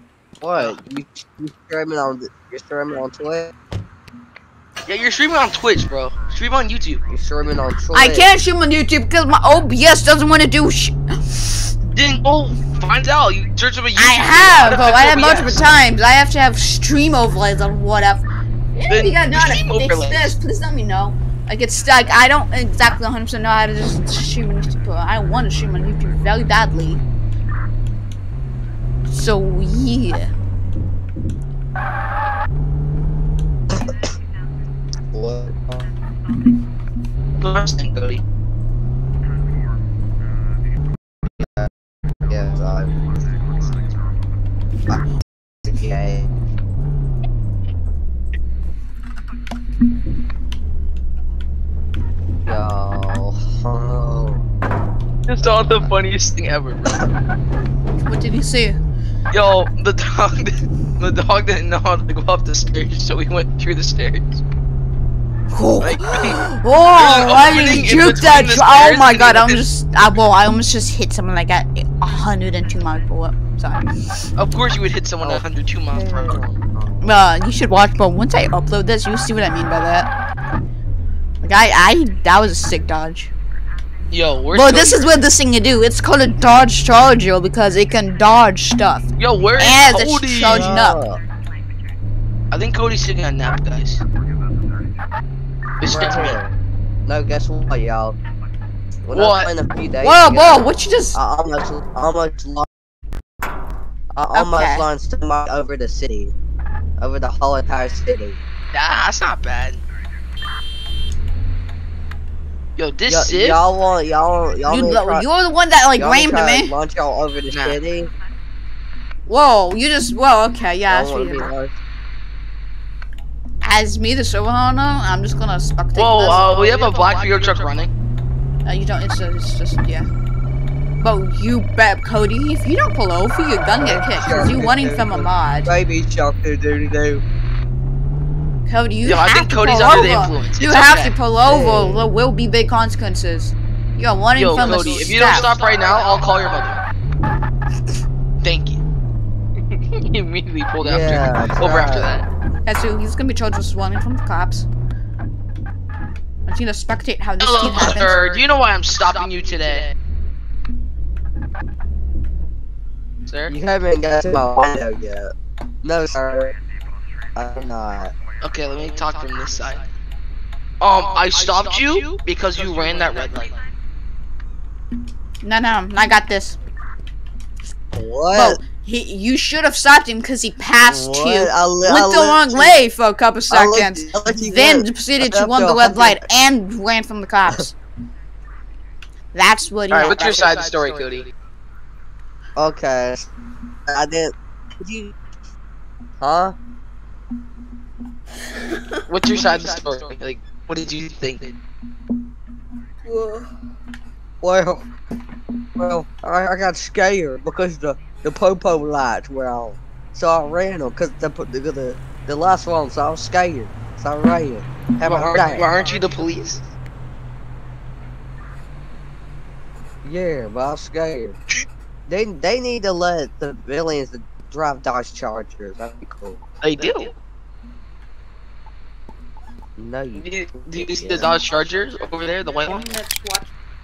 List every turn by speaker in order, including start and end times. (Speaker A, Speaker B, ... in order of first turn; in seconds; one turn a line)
Speaker A: 0.4-3.5
Speaker B: 0.6-0.8
Speaker B: 4.8-7.0
Speaker A: 7.1-8.3
Speaker C: 7.9-11.7
Speaker B: 11.9-15.7
Speaker C: 14.0-18.2
Speaker C: 18.8-27.0
Speaker B: 18.9-20.3
Speaker C: 29.1-30.3
Speaker A: 33.7-34.1
Speaker A: 35.1-35.8
Speaker B: 37.4-38.2
Speaker A: 41.4-41.7
Speaker A: 42.3-42.9
Speaker A: 45.6-46.3
Speaker A: 52.5-54.4
Speaker B: 55.3-57.0
Speaker C: 58.0-58.8
Speaker B: 59.3-64.4
Speaker C: 65.5-73.9
Speaker B: 65.8-66.4
Speaker B: 67.0-69.6
Speaker B: 74.4-76.4
Speaker A: 75.2-77.2
Speaker C: 77.0-80.1
Speaker C: 81.4-83.3
Speaker B: 84.1-85.1
Speaker C: 84.5-91.0
Speaker B: 89.2-90.7
Speaker A: 90.4-91.2
Speaker B: 92.5-94.0
Speaker B: 95.8-96.4
Speaker A: 95.8-98.2
Speaker A: 99.0-102.7
Speaker B: 99.1-99.5
Speaker C: 100.0-101.2
Speaker A: 104.1-106.3
Speaker C: 104.3-104.9
Speaker A: 107.0-108.4
Speaker B: 108.7-109.8
Speaker B: 112.8-113.6
Speaker A: 113.0-115.3
Speaker C: 114.7-116.7
Speaker A: 116.0-118.1
Speaker B: 117.5-117.8
Speaker C: 119.3-121.5
Speaker A: 120.9-121.7
Speaker C: 123.6-126.6
Speaker B: 126.0-127.9
Speaker A: 126.3-127.6
Speaker C: 128.7-130.1
Speaker C: 131.0-135.7
Speaker A: 133.8-137.2
Speaker C: 138.7-145.5
Speaker B: 139.0-141.2
Speaker A: 141.4-142.1
Speaker B: 144.3-146.8
Speaker A: 144.6-145.4
Speaker B: 148.4-148.8
Speaker B: 149.9-152.2
Speaker A: 150.8-152.2
Speaker C: 152.7-154.7
Speaker C: 156.5-158.3
Speaker B: 157.4-159.9
Speaker A: 158.0-158.3
Speaker A: 158.9-159.8
Speaker B: 163.3-163.5
Speaker A: 163.5-165.3
Speaker A: 165.8-166.5
Speaker A: 167.4-168.2
Speaker B: 168.4-169.9
Speaker B: 170.8-173.6
Speaker A: 172.6-172.9
Speaker C: 175.4-176.6
Speaker A: 177.9-178.6
Speaker C: 178.3-187.7
Speaker A: 180.8-182.8
Speaker A: 183.5-186.3
Speaker C: 189.3-190.8
Speaker B: 189.9-191.3
Speaker A: 190.0-191.0
Speaker A: 192.6-193.3
Speaker A: 193.9-195.1
Speaker A: 196.2-196.6
Speaker C: 198.6-199.4
Speaker B: 199.1-201.6
Speaker C: 203.1-203.5
Speaker A: 204.4-204.8
Speaker A: 205.8-216.0
Speaker B: 215.0-216.6
Speaker A: 220.0-221.4
Speaker A: 222.1-226.4
Speaker B: 226.6-227.1
Speaker C: 226.8-227.1
Speaker A: 229.8-231.5
Speaker B: 230.2-232.9
Speaker C: 231.2-233.5